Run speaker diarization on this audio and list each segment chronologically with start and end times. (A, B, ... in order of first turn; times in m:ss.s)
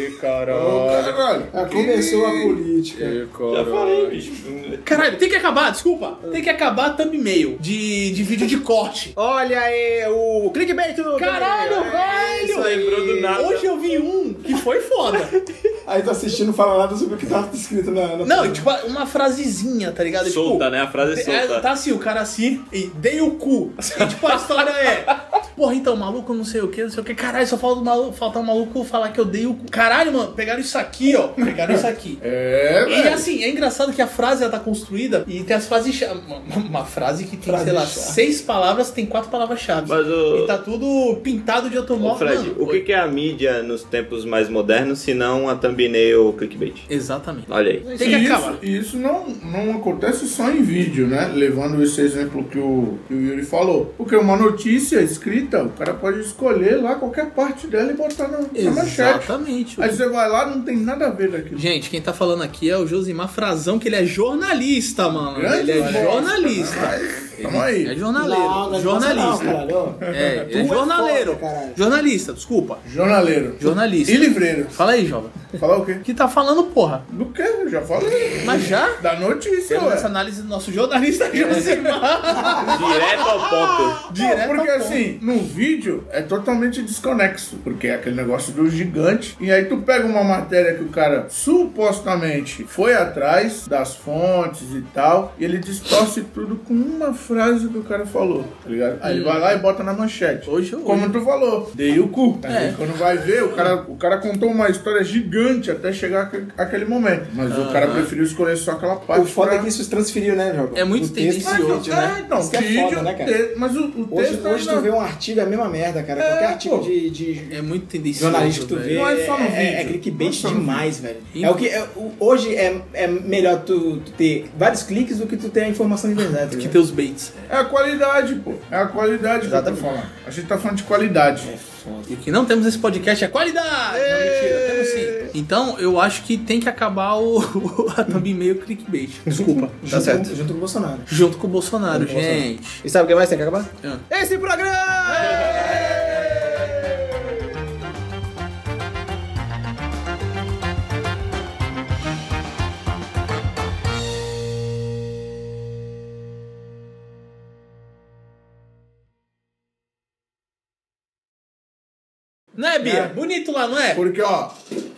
0:00.5-0:03.2 A
0:00.5-0:04.2 B
0:03.5-0:05.0 C
0:04.8-0:09.1 D
0:06.2-0:06.5 E
0:09.2-0:13.4 E
0:11.2-0:15.3 D
0:12.5-0:13.6 C
0:15.9-0:18.7 A
0:18.2-0:32.2 D
0:20.2-0:21.7 C
0:23.8-0:24.4 C
0:31.7-0:33.3 B
0:32.9-0:42.8 D
0:37.4-0:38.2 A
0:39.9-0:40.6 C
0:42.0-0:46.9 C
0:46.9-0:48.6 D
0:47.5-0:48.0 C
0:47.9-1:01.6 B
0:58.6-1:00.0 D
1:01.6-1:09.6 D
1:05.2-1:08.0 B
1:08.2-1:11.8 A
1:10.1-1:10.4 B
1:10.1-1:12.8 D
1:12.8-1:14.8 B
1:13.6-1:15.4 D
1:15.6-1:16.0 B
1:16.0-1:17.1 D
1:17.1-1:20.1 B
1:18.4-1:19.0 D
1:19.7-1:23.0 D
1:21.3-1:22.0 B
1:22.7-1:24.0 C
1:24.1-1:25.0 D
1:24.1-1:49.7 B
1:39.0-1:39.6 D
1:40.5-1:41.1 D
1:42.5-1:42.8 D
1:47.5-1:48.1 D
1:49.1-1:53.4 A
1:50.8-1:52.2 D
1:51.4-1:54.9 B
1:54.1-2:06.8 A
1:56.2-1:56.9 B
1:57.5-1:59.1 D
1:58.9-2:00.9 B
2:01.3-2:01.6 D
2:06.4-2:07.5 D
2:07.5-2:11.5 B
2:09.4-2:09.9 E
2:11.4-2:12.1 A
2:12.1-2:19.7 D
2:13.9-2:15.3 E
2:19.3-2:20.3 E
2:19.8-2:21.1 A
2:21.1-2:22.8 D
2:21.9-2:27.3 E
2:42.6-2:44.0 D
2:42.8-2:43.1 B
2:43.9-2:44.5 B